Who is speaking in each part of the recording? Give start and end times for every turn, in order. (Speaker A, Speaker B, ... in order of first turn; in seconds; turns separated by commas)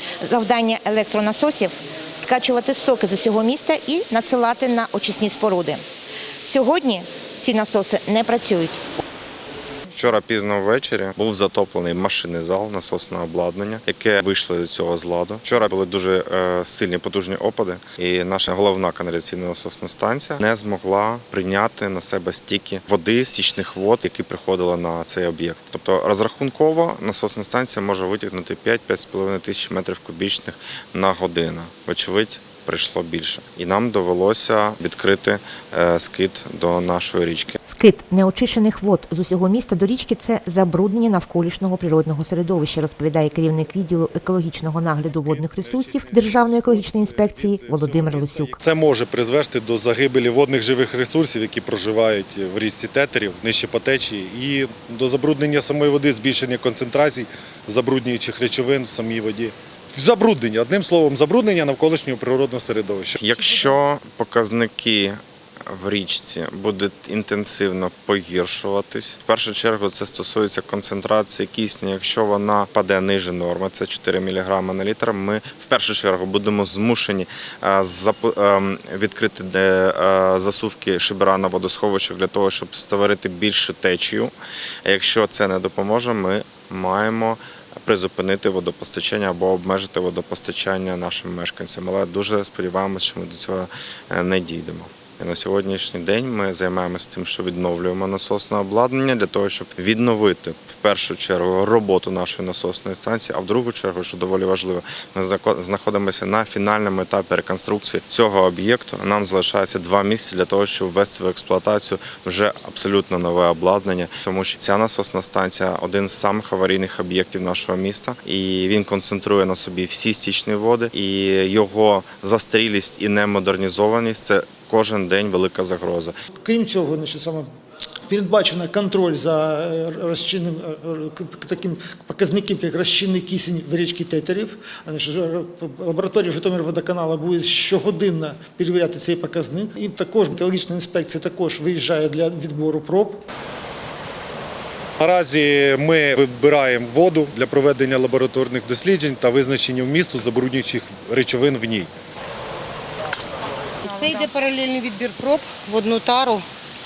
Speaker A: 0.2-5.8, Speaker A: 6.4-8.8, Speaker B: 9.9-37.6, Speaker A: 37.6-48.6, Speaker C: 44.9-63.7, Speaker B: 63.2-84.3, Speaker B: 84.8-126.1, Speaker D: 126.4-127.5, Speaker D: 128.1-143.2, Speaker C: 145.0-151.9, Speaker E: 153.8-156.4